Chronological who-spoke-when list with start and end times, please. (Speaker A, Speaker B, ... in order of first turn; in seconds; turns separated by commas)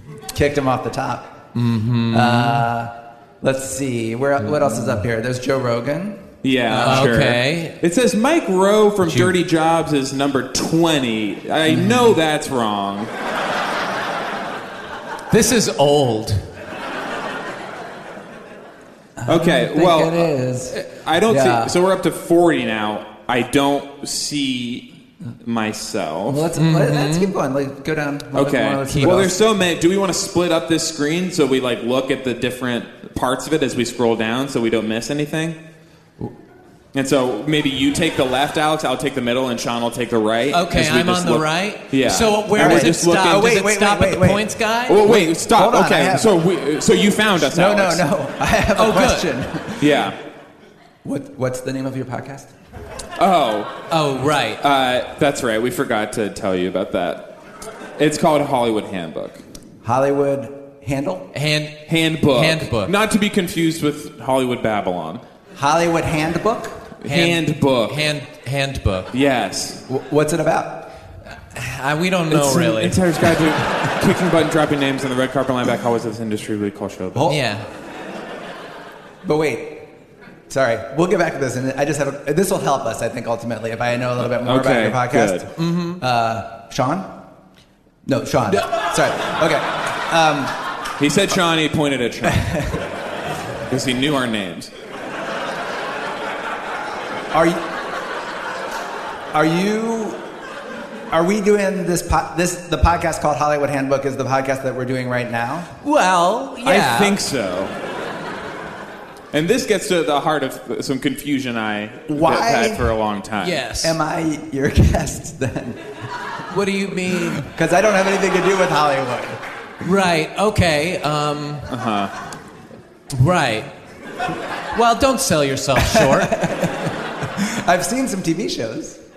Speaker A: 0.3-1.3, Speaker B: 1.5-2.6, Speaker A: 2.1-6.2, Speaker C: 6.4-13.1, Speaker B: 6.7-7.8, Speaker A: 6.8-7.1, Speaker B: 9.1-9.3, Speaker B: 15.3-16.4, Speaker A: 19.2-21.7, Speaker C: 19.2-24.9, Speaker C: 25.4-26.5, Speaker A: 26.3-29.3, Speaker B: 26.6-27.3, Speaker C: 28.3-35.6, Speaker B: 28.9-29.2, Speaker C: 36.9-43.5, Speaker B: 40.5-45.1, Speaker A: 42.5-44.5, Speaker C: 44.9-48.1, Speaker A: 45.0-46.3, Speaker A: 47.4-50.0, Speaker B: 48.8-49.3, Speaker C: 49.8-50.2, Speaker A: 51.0-52.5, Speaker C: 53.2-53.7, Speaker B: 53.9-54.6, Speaker C: 54.6-57.2, Speaker C: 58.0-59.4, Speaker A: 59.8-61.3, Speaker B: 61.3-62.9, Speaker C: 61.9-65.2, Speaker A: 65.5-66.9, Speaker C: 67.0-68.0, Speaker B: 67.0-69.1, Speaker C: 69.1-69.8, Speaker A: 69.9-70.9, Speaker B: 71.5-73.0, Speaker C: 72.3-77.3, Speaker A: 77.1-77.4, Speaker B: 77.3-77.6, Speaker A: 79.2-79.9, Speaker A: 80.5-87.1, Speaker C: 84.2-85.5, Speaker B: 85.5-86.0, Speaker A: 88.0-90.5, Speaker C: 91.0-92.6, Speaker A: 92.2-92.8, Speaker C: 93.7-94.7, Speaker A: 97.3-97.6, Speaker A: 99.3-100.2, Speaker A: 101.1-105.7, Speaker B: 105.8-107.2, Speaker C: 106.6-107.7, Speaker C: 109.3-113.6, Speaker A: 112.1-112.9, Speaker B: 113.4-114.0, Speaker A: 113.8-115.8, Speaker B: 116.5-117.5, Speaker A: 117.1-119.4, Speaker B: 119.8-121.7, Speaker C: 121.7-122.1, Speaker B: 123.1-123.7, Speaker B: 124.7-126.3, Speaker A: 125.8-129.0